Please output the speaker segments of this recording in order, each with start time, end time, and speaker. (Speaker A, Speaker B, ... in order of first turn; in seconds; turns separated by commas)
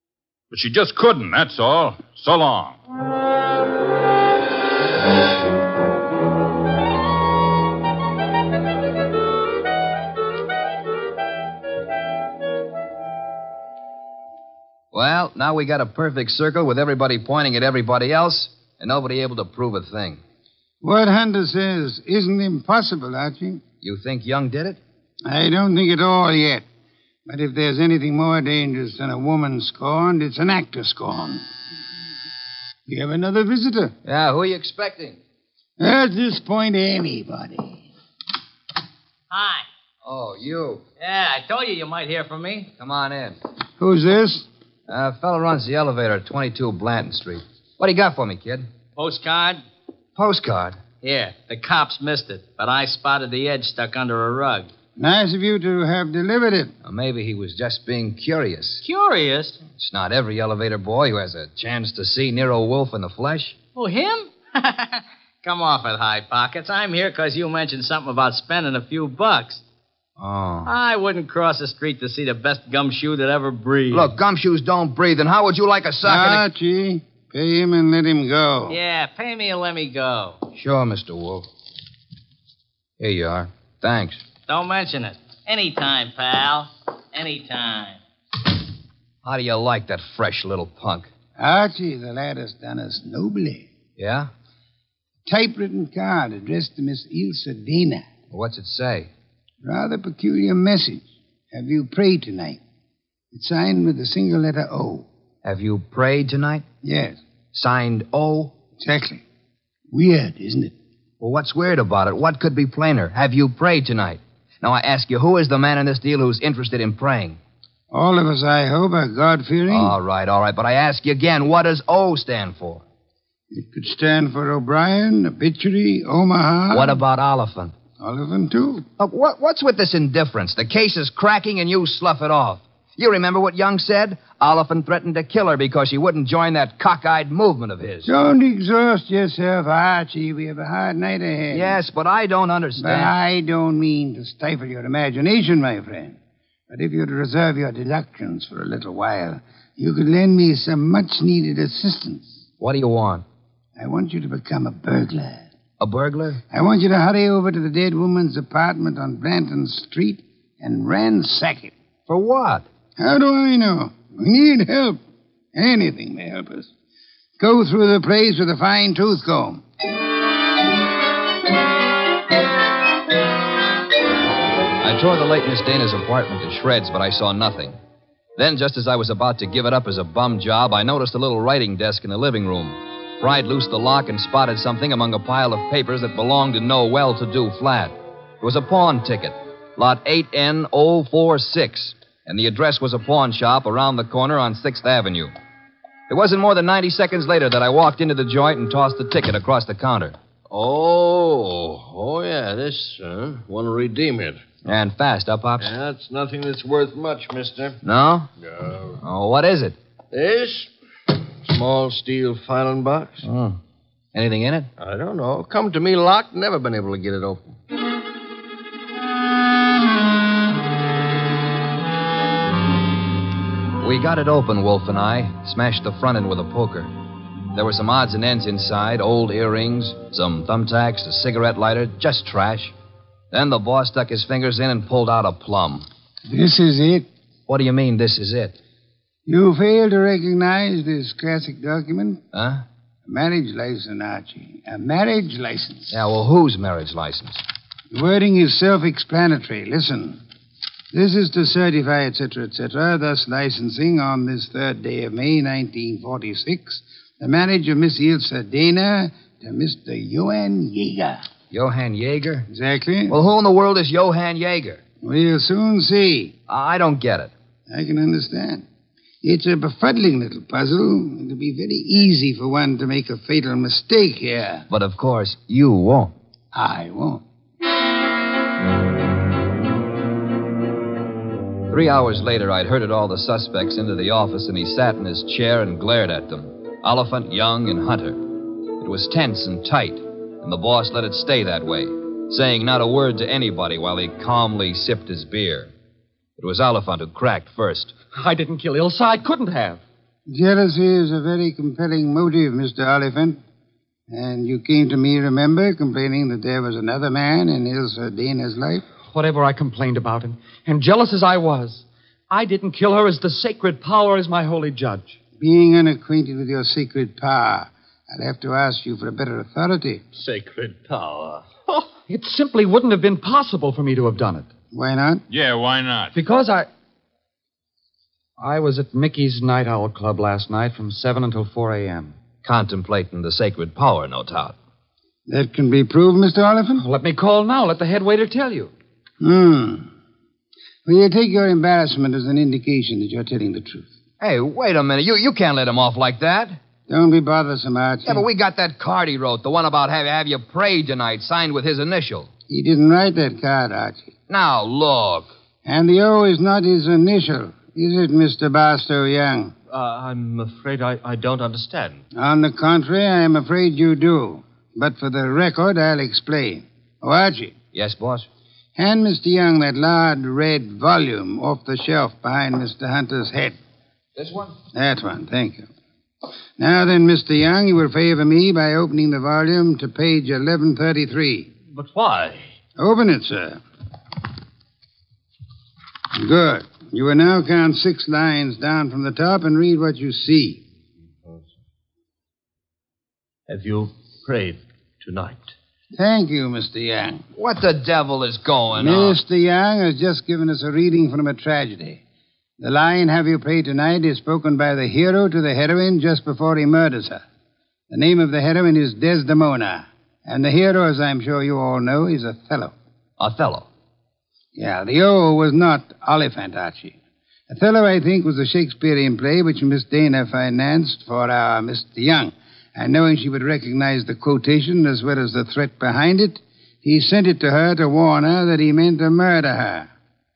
Speaker A: 0.5-2.8, Speaker B: 14.9-20.2, Speaker C: 20.8-23.6, Speaker B: 23.8-24.8, Speaker C: 25.2-26.6, Speaker C: 27.3-31.4, Speaker C: 32.9-33.9, Speaker B: 34.0-35.2, Speaker C: 35.8-37.8, Speaker D: 39.3-39.6, Speaker B: 40.0-40.8, Speaker D: 41.0-42.7, Speaker B: 42.8-43.4, Speaker C: 43.8-44.5, Speaker B: 44.9-48.7, Speaker D: 49.0-49.6, Speaker B: 50.1-50.8, Speaker D: 51.0-54.7, Speaker C: 55.0-56.7, Speaker B: 56.8-58.8, Speaker D: 58.8-59.6, Speaker B: 59.7-63.5, Speaker D: 63.7-69.6, Speaker B: 70.2-70.7, Speaker D: 70.6-74.1, Speaker B: 73.9-76.5, Speaker C: 76.0-78.8, Speaker D: 78.7-80.4, Speaker B: 80.5-81.5, Speaker B: 83.0-84.2, Speaker D: 84.5-88.0, Speaker B: 89.2-91.1, Speaker C: 91.4-93.7, Speaker B: 94.0-94.3, Speaker C: 95.3-98.1, Speaker B: 98.3-99.1, Speaker C: 99.6-102.6, Speaker C: 103.3-105.1, Speaker B: 105.4-106.7, Speaker C: 106.8-107.2, Speaker B: 107.5-108.5, Speaker C: 108.8-109.2, Speaker C: 109.9-110.7, Speaker B: 111.2-117.4, Speaker C: 117.9-120.0, Speaker B: 119.7-122.8, Speaker C: 123.5-127.0, Speaker B: 126.7-127.7, Speaker C: 128.0-128.8, Speaker B: 129.0-138.1, Speaker C: 138.1-141.8, Speaker B: 141.5-143.1, Speaker C: 142.8-146.2, Speaker C: 146.7-152.4, Speaker B: 152.6-153.2, Speaker C: 153.8-155.4, Speaker B: 155.8-156.4, Speaker C: 156.5-161.7, Speaker B: 162.1-162.7, Speaker C: 163.0-165.0, Speaker C: 165.5-166.7, Speaker C: 167.4-169.6, Speaker B: 174.8-177.8, Speaker B: 178.3-195.3, Speaker B: 196.1-200.2, Speaker E: 200.5-204.4, Speaker B: 204.6-205.7, Speaker E: 205.6-207.8, Speaker B: 207.8-208.3, Speaker E: 208.4-209.0, Speaker B: 209.0-209.8, Speaker E: 210.1-210.7, Speaker E: 211.4-213.2, Speaker B: 213.2-213.6, Speaker B: 214.1-214.7, Speaker E: 214.8-217.5, Speaker B: 223.8-226.9, Speaker B: 227.5-232.7, Speaker B: 233.3-235.9, Speaker C: 236.3-237.1, Speaker B: 237.5-238.6, Speaker C: 239.2-242.2, Speaker B: 242.3-242.6, Speaker C: 243.1-246.0, Speaker B: 245.9-247.4, Speaker C: 247.9-250.2, Speaker C: 250.9-261.2, Speaker B: 261.5-262.5, Speaker C: 262.5-263.1, Speaker B: 263.1-264.8, Speaker C: 265.0-266.3, Speaker B: 266.5-267.3, Speaker C: 267.7-268.6, Speaker C: 269.2-274.7, Speaker B: 274.7-276.1, Speaker C: 276.5-277.2, Speaker B: 281.7-295.7, Speaker B: 296.4-297.9, Speaker F: 298.1-299.8, Speaker C: 300.3-303.4, Speaker C: 304.1-308.8, Speaker F: 309.1-315.2, Speaker C: 315.4-320.0, Speaker G: 320.1-321.5, Speaker F: 322.1-324.5, Speaker C: 324.7-325.2, Speaker A: 325.3-326.1, Speaker F: 326.1-326.7, Speaker F: 328.4-332.1, Speaker B: 332.4-334.6, Speaker C: 335.3-336.8, Speaker F: 336.8-338.7, Speaker C: 339.2-339.9, Speaker C: 340.9-343.9, Speaker B: 344.2-346.6, Speaker C: 346.9-348.2, Speaker B: 348.1-352.3, Speaker C: 352.5-354.1, Speaker B: 354.3-355.3, Speaker C: 355.6-359.5, Speaker G: 359.7-362.0, Speaker C: 362.1-367.5, Speaker B: 367.7-368.3, Speaker C: 368.8-373.6, Speaker B: 374.2-374.5, Speaker C: 374.7-375.7, Speaker C: 376.6-381.5, Speaker G: 381.7-382.4, Speaker C: 382.8-383.6, Speaker C: 386.2-390.6, Speaker G: 393.5-395.5, Speaker C: 395.9-397.2, Speaker B: 397.4-399.2, Speaker C: 398.7-402.0, Speaker C: 402.6-407.2, Speaker C: 407.9-412.7, Speaker B: 413.2-413.7, Speaker C: 414.6-417.0, Speaker C: 417.5-429.9